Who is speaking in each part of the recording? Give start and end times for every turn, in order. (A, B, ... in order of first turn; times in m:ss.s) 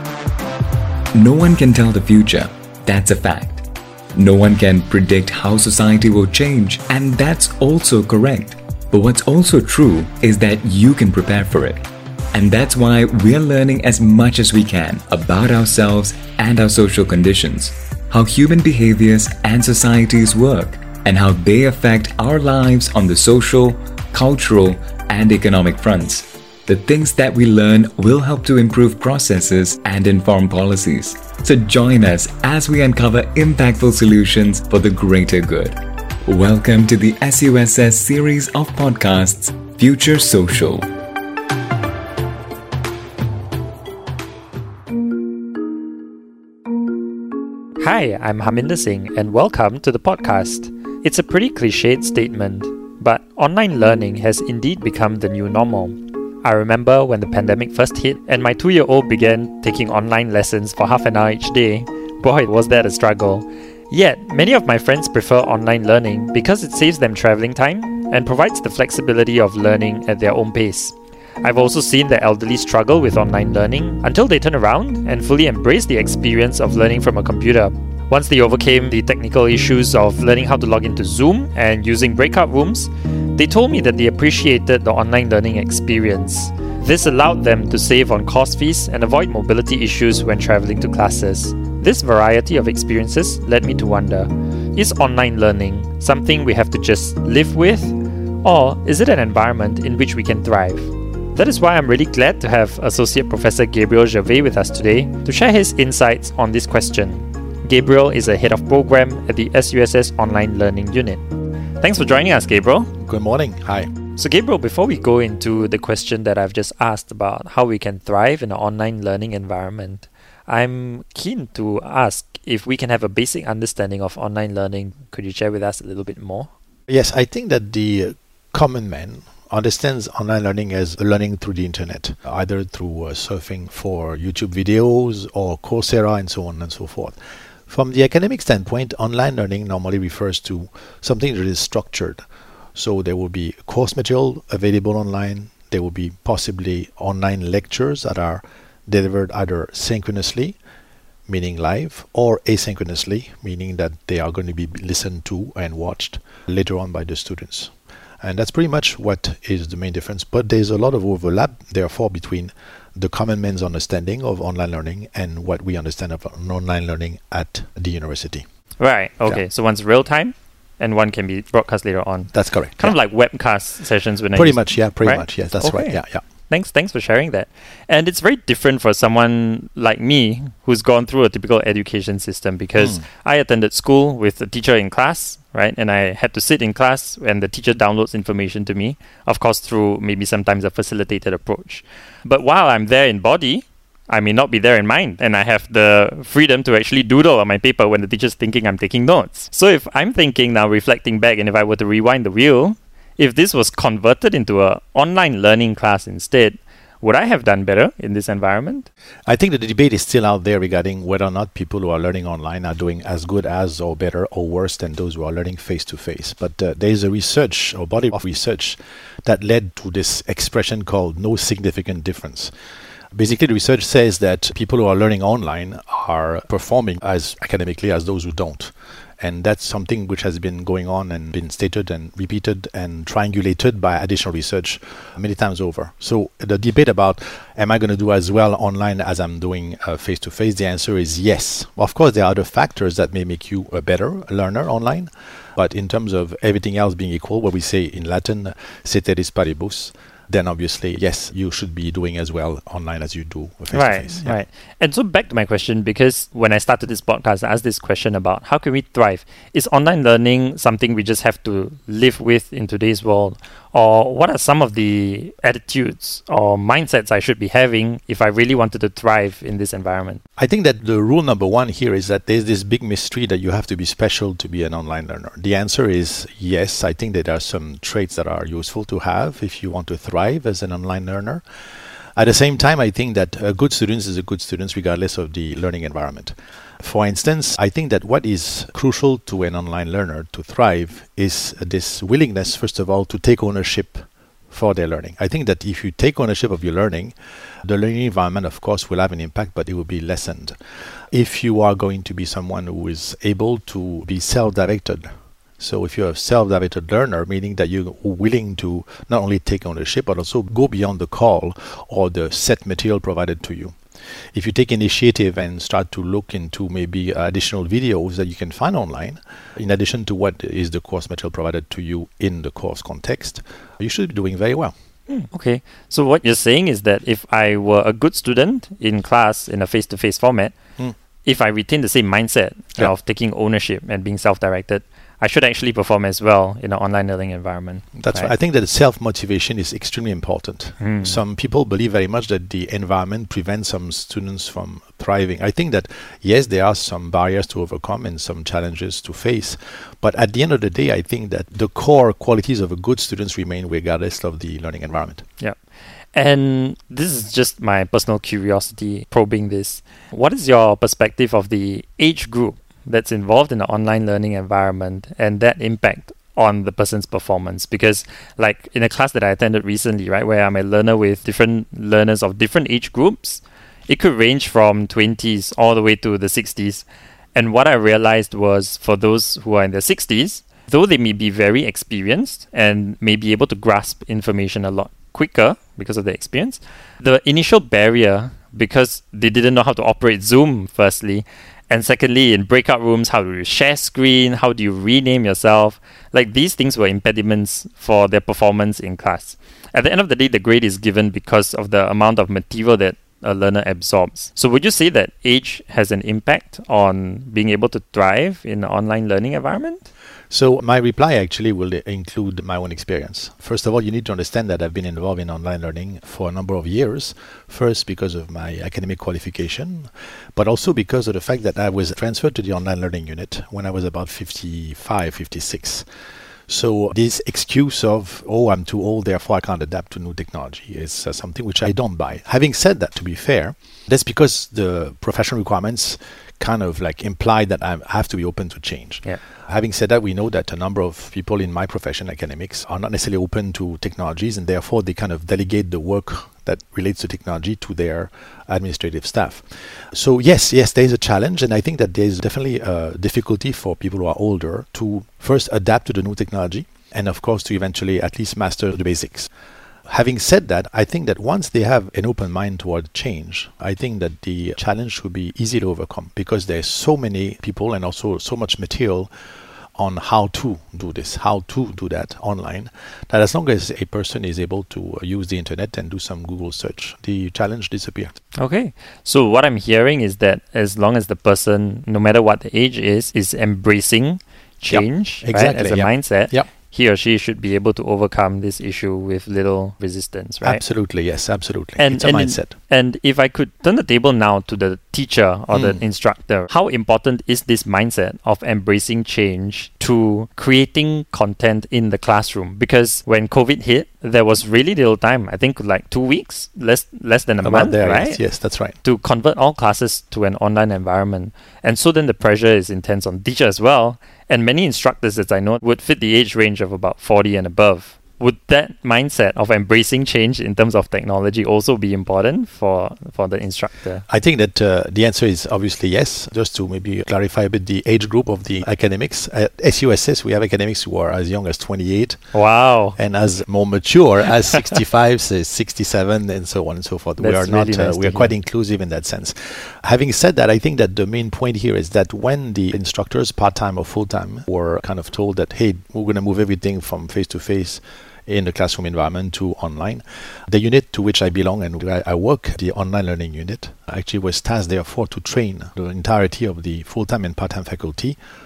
0:01.1-0:40.9 A
0:47.8-1:51.2 B
1:51.8-1:52.9 B
1:53.0-1:53.9 C
1:54.2-2:06.5 B
2:06.9-2:17.2 C
2:17.7-2:22.2 C
2:22.7-2:30.6 C
2:31.3-2:48.4 C
2:48.8-3:28.9 B
2:52.3-2:52.9 C
2:54.3-2:56.2 C
3:02.8-3:03.0 C
3:29.3-3:42.5 C
3:43.1-4:14.4 C
4:13.7-4:30.2 B
4:30.4-4:41.4 C
4:42.2-5:00.6 C
5:01.1-5:05.1 C
5:05.6-5:13.8 C
5:14.3-5:24.7 C
5:25.1-5:30.5 B
5:31.2-5:38.3 B
5:38.0-5:55.2 C
5:40.8-5:41.2 B
5:56.1-6:49.9 B
6:50.3-7:05.8 C
7:06.5-7:39.3 C
7:39.9-7:49.1 C
7:49.8-7:58.2 C
7:58.3-8:10.6 B
8:04.6-8:06.5 C
8:10.4-8:12.5 C
8:11.8-8:28.2 B
8:15.5-8:15.8 C
8:27.4-8:28.8 C
8:28.8-8:44.0 B
8:44.1-8:52.3 C
8:52.3-8:53.0 B
8:53.0-9:18.2 C
8:57.2-8:58.3 B